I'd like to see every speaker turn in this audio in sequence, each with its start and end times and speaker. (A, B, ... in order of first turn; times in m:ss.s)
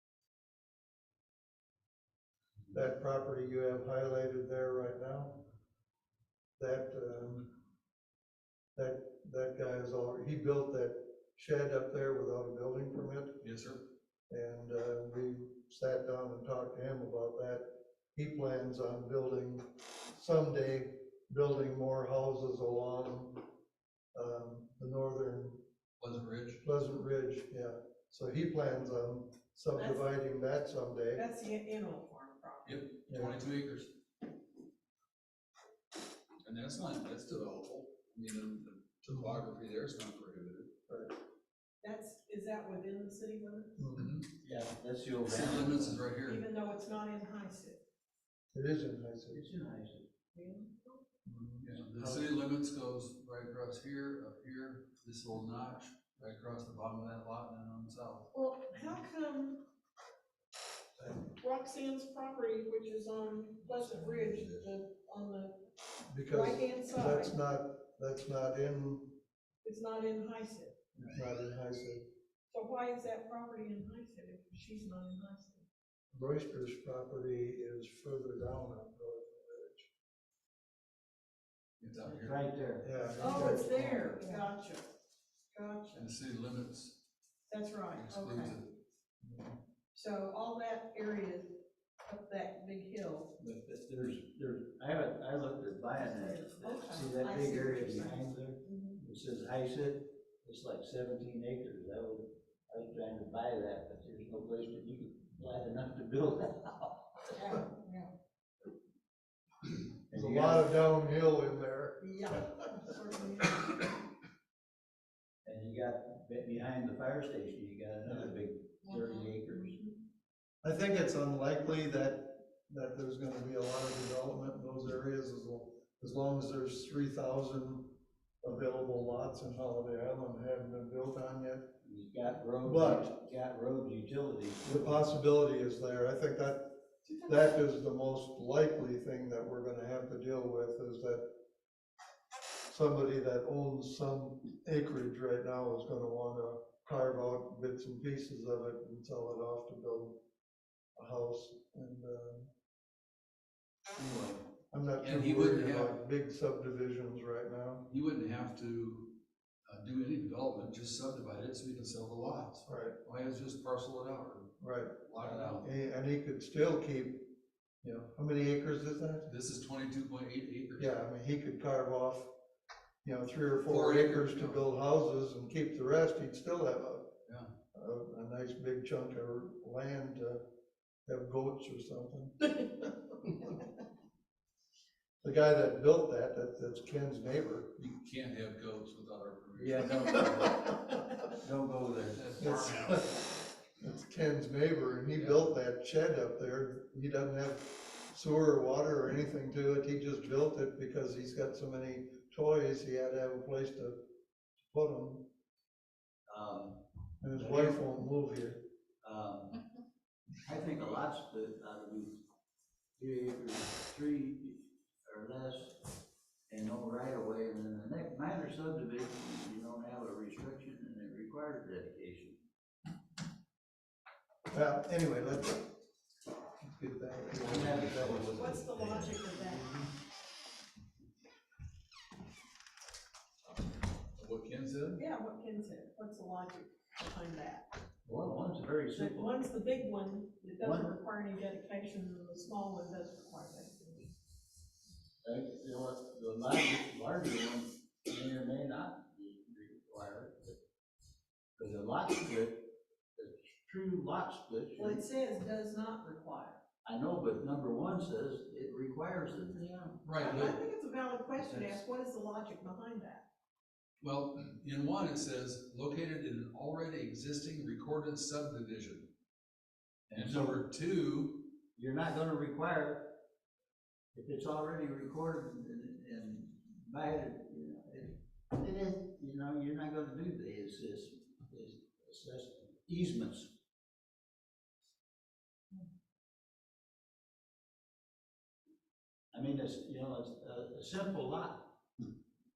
0:02.7-0:05.4 A
0:06.6-0:07.5 A
0:08.8-0:13.4 A
0:13.4-0:13.8 B
0:14.3-0:23.4 A
0:24.1-0:25.6 A
0:26.0-0:26.6 B
0:26.6-0:31.2 A
0:29.8-0:30.0 C
0:31.2-0:32.8 C
0:32.6-0:33.9 B
0:33.1-0:33.4 A
0:36.4-0:40.7 B
0:39.1-0:39.4 A
0:40.9-0:41.2 A
0:41.8-0:43.8 C
0:43.8-0:44.1 A
0:43.9-0:44.3 B
0:44.4-0:46.0 D
0:45.2-0:46.4 B
0:46.2-0:47.8 C
0:48.5-0:49.5 A
0:49.3-0:50.0 D
0:50.3-0:51.0 C
0:51.2-0:52.3 A
0:51.6-0:58.3 B
0:58.3-0:59.6 C
1:01.0-1:01.2 A
1:01.2-1:05.6 C
1:06.1-1:09.2 A
1:06.3-1:07.3 C
1:09.6-1:10.8 C
1:11.0-1:12.0 A
1:12.5-1:15.6 C
1:16.1-1:19.9 A
1:21.8-1:22.4 B
1:22.2-1:24.4 D
1:22.8-1:23.7 A
1:23.0-1:23.4 B
1:23.2-1:24.8 C
1:25.5-1:26.1 C
1:25.9-1:27.0 B
1:27.5-1:28.6 C
1:27.9-1:28.7 B
1:29.2-1:29.6 A
1:29.9-1:31.5 C
1:32.0-1:33.3 C
1:33.4-1:47.4 D
1:36.0-1:39.0 C
1:47.3-1:48.1 C
1:50.1-1:50.7 D
1:50.1-1:52.1 A
1:52.0-1:53.9 C
1:55.4-1:59.8 D
1:58.9-1:59.2 C
2:00.6-2:11.7 A
2:11.8-2:14.9 D
2:12.6-2:13.1 A
2:14.6-2:16.6 A
2:17.2-2:21.2 A
2:22.7-2:30.2 A
2:31.0-2:32.5 A
2:34.0-2:34.4 D
2:34.7-2:37.9 A
2:35.0-2:35.9 B
2:37.8-2:39.2 B
2:39.7-2:44.5 B
2:42.6-2:43.0 A
2:44.6-2:49.3 A
2:45.0-2:45.6 B
2:49.2-2:50.9 B
2:50.8-2:52.3 A
2:53.0-2:57.1 A
2:53.7-2:54.6 B
2:57.7-3:00.4 A
3:01.1-3:02.8 A
3:05.2-3:07.7 A
3:07.8-3:10.2 B
3:09.6-3:10.7 D
3:11.2-3:12.3 D
3:12.1-3:13.1 B
3:12.4-3:13.2 A
3:13.8-3:24.0 A
3:15.1-3:15.5 B
3:24.6-3:25.3 A
3:26.3-3:26.8 D
3:27.2-3:28.6 A
3:27.3-3:27.8 D
3:29.0-3:29.6 D
3:30.4-3:32.2 D
3:33.0-3:35.8 D
3:36.5-3:42.4 D
3:44.5-3:45.7 A
3:46.6-3:48.4 A
3:47.4-3:49.9 D
3:47.4-3:49.1 B
3:48.4-3:49.7 C
3:54.2-3:55.0 B
3:55.0-3:57.6 C
3:58.0-3:59.3 D
3:59.0-4:04.1 C
4:00.6-4:00.9 D
4:05.2-4:10.6 D
4:11.6-4:15.0 D
4:14.8-4:16.6 C
4:16.8-4:20.6 D
4:20.0-4:20.5 B
4:20.2-4:23.2 C
4:21.4-4:21.8 D
4:24.0-4:29.1 B
4:30.1-4:30.6 D
4:30.1-4:31.5 B
4:31.7-4:33.2 D
4:34.1-4:43.5 D
4:49.3-4:51.8 D